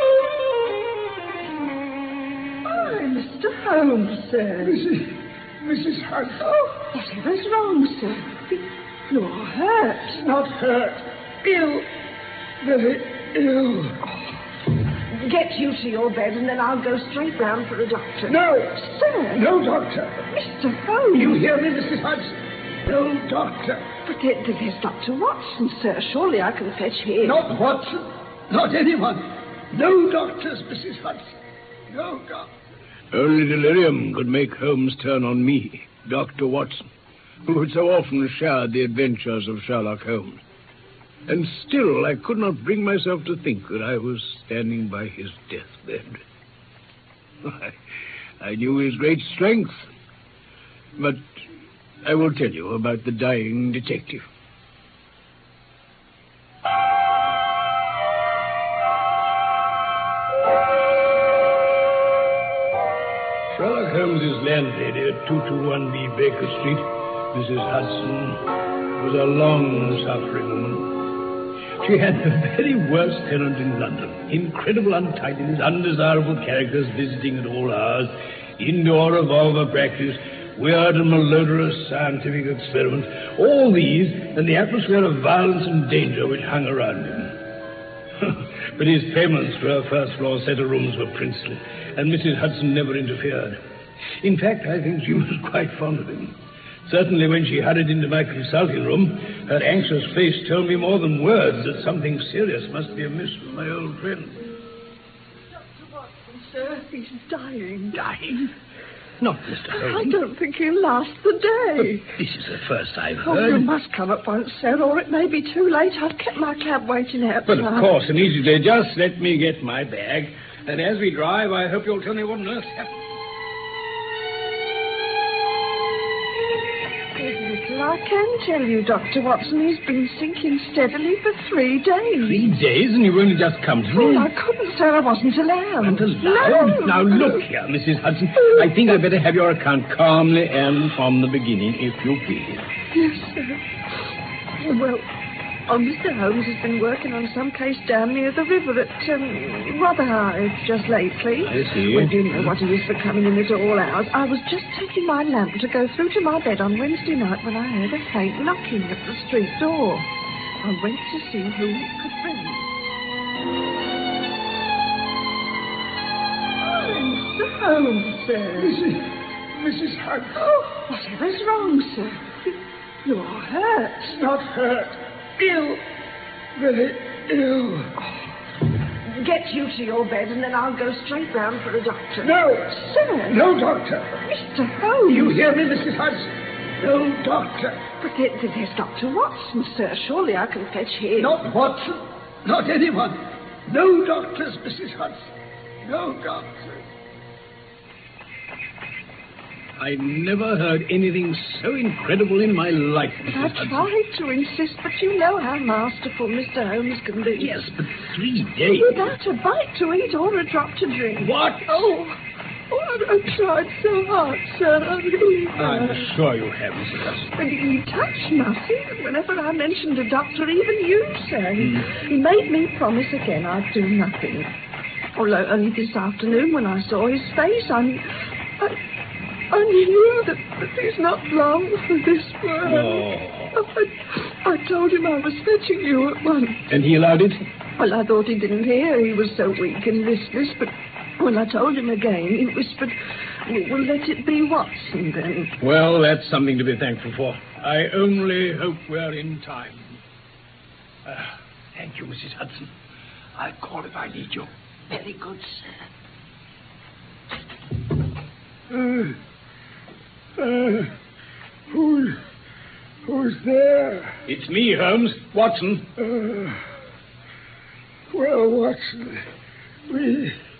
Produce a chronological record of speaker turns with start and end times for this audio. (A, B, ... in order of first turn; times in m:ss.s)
0:02.6-0:04.8 A
0:04.6-0:06.7 B
0:06.7-0:10.2 A
0:10.2-0:11.9 B
0:12.6-0:14.0 B
0:14.0-0:14.4 A
0:15.1-0:19.4 A
0:18.2-0:20.2 B
0:20.3-0:21.4 A
0:21.1-0:23.9 B
0:24.0-0:27.4 A
0:27.2-0:31.3 B
0:31.9-0:32.5 B
0:33.1-0:36.8 C
0:37.4-0:40.4 C
0:41.3-0:46.2 C
0:47.4-0:47.8 C
0:48.4-0:49.8 C
0:52.0-0:54.2 C
1:03.5-1:08.4 C
1:09.0-1:11.1 C
1:11.8-1:27.4 C
1:28.2-1:33.6 C
1:34.2-1:36.3 C
1:36.8-1:44.4 C
1:45.8-1:48.1 A
1:47.9-1:48.5 C
1:49.2-1:50.2 C
1:49.7-1:52.1 A
1:52.1-1:53.7 C
1:53.2-1:57.9 A
1:57.4-2:03.0 C
2:07.1-2:12.5 A
2:12.2-2:14.3 C
2:13.9-2:17.4 A
2:15.8-2:22.6 C
2:22.9-2:24.0 A
2:24.6-2:25.1 A
2:25.7-2:40.1 A
2:31.4-2:32.5 C
2:40.6-2:42.7 A
2:46.6-2:48.7 A
2:48.5-2:50.5 B
2:50.4-2:54.2 A
2:54.1-2:55.8 B
2:56.6-2:57.9 B
2:59.0-3:03.4 A
3:02.2-3:04.2 B
3:04.2-3:05.4 A
3:05.1-3:07.8 B
3:08.0-3:11.4 A
3:11.2-3:15.3 B
3:15.8-3:16.8 B
3:19.8-3:23.9 C
3:23.3-3:27.7 A
3:27.4-3:29.1 C
3:28.8-3:32.2 A
3:31.2-3:31.9 C
3:32.7-3:36.1 A
3:35.6-3:37.3 C
3:37.3-3:44.5 A
3:41.6-3:41.9 C
3:45.1-3:48.0 A
3:49.5-3:56.7 A
3:52.6-3:53.6 C
3:56.7-3:57.4 C
3:57.8-4:05.5 A
4:05.6-4:09.9 C
4:11.0-4:12.7 C
4:13.4-4:15.5 C
4:18.7-4:19.1 B
4:20.4-4:20.9 B
4:21.7-4:22.2 B
4:23.0-4:24.2 B
4:24.2-4:25.9 C
4:26.0-4:26.6 B
4:28.1-4:29.2 B
4:29.9-4:30.4 B